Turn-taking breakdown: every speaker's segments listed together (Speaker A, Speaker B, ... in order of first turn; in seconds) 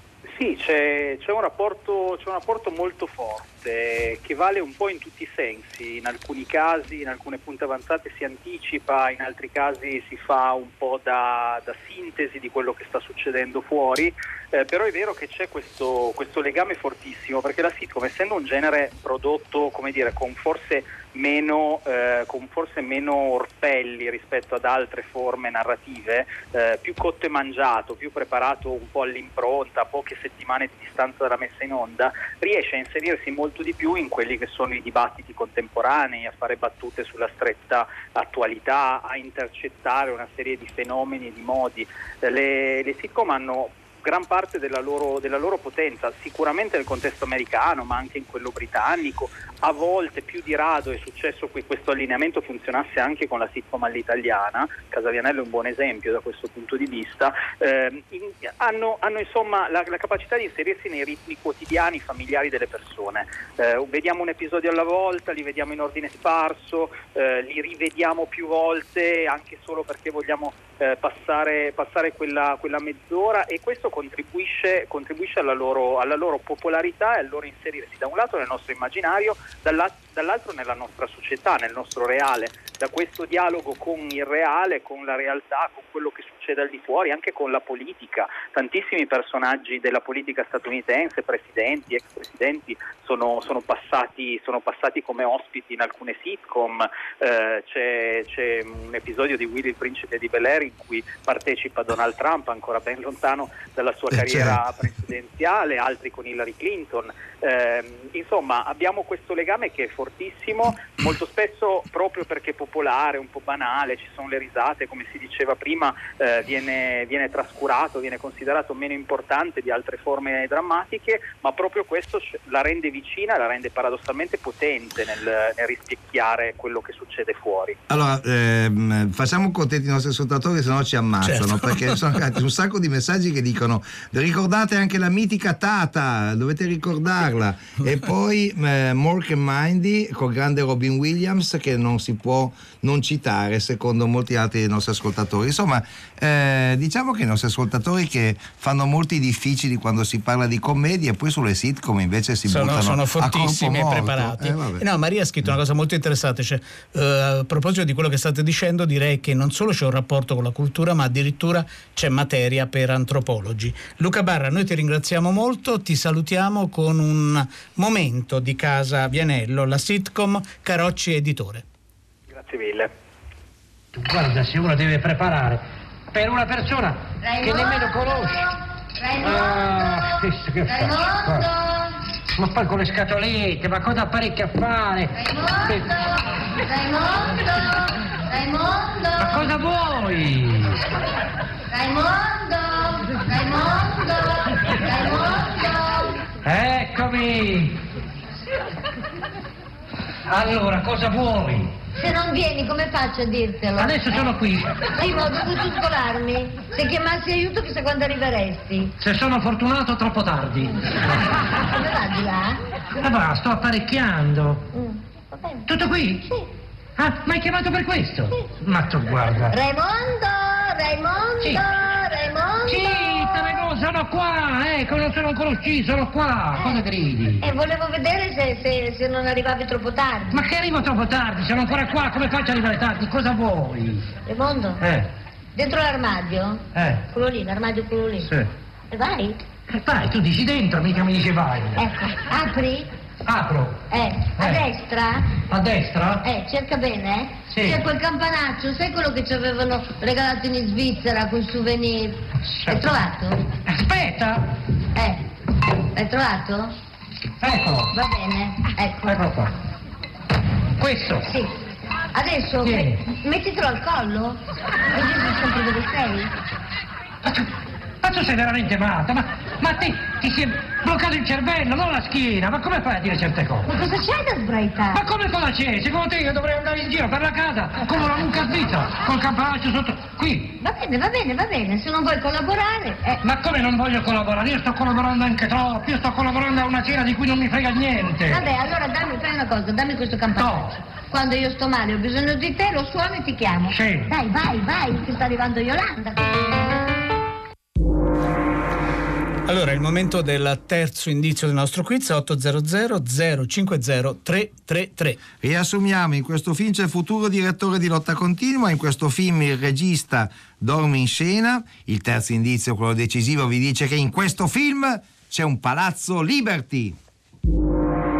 Speaker A: 0.3-127.8, 172.3-172.9
Speaker B: 104.1-104.6, 127.9-154.8, 305.4-317.0
Speaker C: 131.2-132.0, 152.5-171.6, 299.5-305.2
Speaker D: 173.9-178.5, 179.1-181.5, 182.3-185.9, 189.2-190.8, 196.4-197.8, 200.3-201.7, 203.7-204.8, 209.0-211.5, 213.0-214.7, 215.7-216.2, 217.0-219.6, 222.6-227.4, 230.3-234.1, 234.8-235.1, 236.7-237.1, 238.2-238.5, 239.7-241.9, 243.2-243.8, 244.4-244.6, 245.5-246.3, 247.5-247.9, 252.5-252.9, 253.7-254.4, 257.4-258.0, 259.0-259.5, 260.8-261.3, 262.6-263.0, 268.0-273.7, 274.9-280.6, 283.2-288.4, 290.3-290.8, 293.7-294.1
Speaker E: 177.2-182.0, 185.2-189.5, 191.7-196.2, 202.0-204.3, 204.9-208.9, 211.6-212.6, 214.7-215.7, 219.5-223.6, 226.6-226.8, 227.4-230.4, 234.2-234.8, 235.6-238.3, 238.9-239.4, 241.8-242.9, 243.9-245.3, 246.2-253.4, 254.9-255.3, 255.9-256.7, 257.9-259.2, 261.2-261.5, 262.1-266.3, 273.7-275.0, 280.6-283.2, 288.3-296.6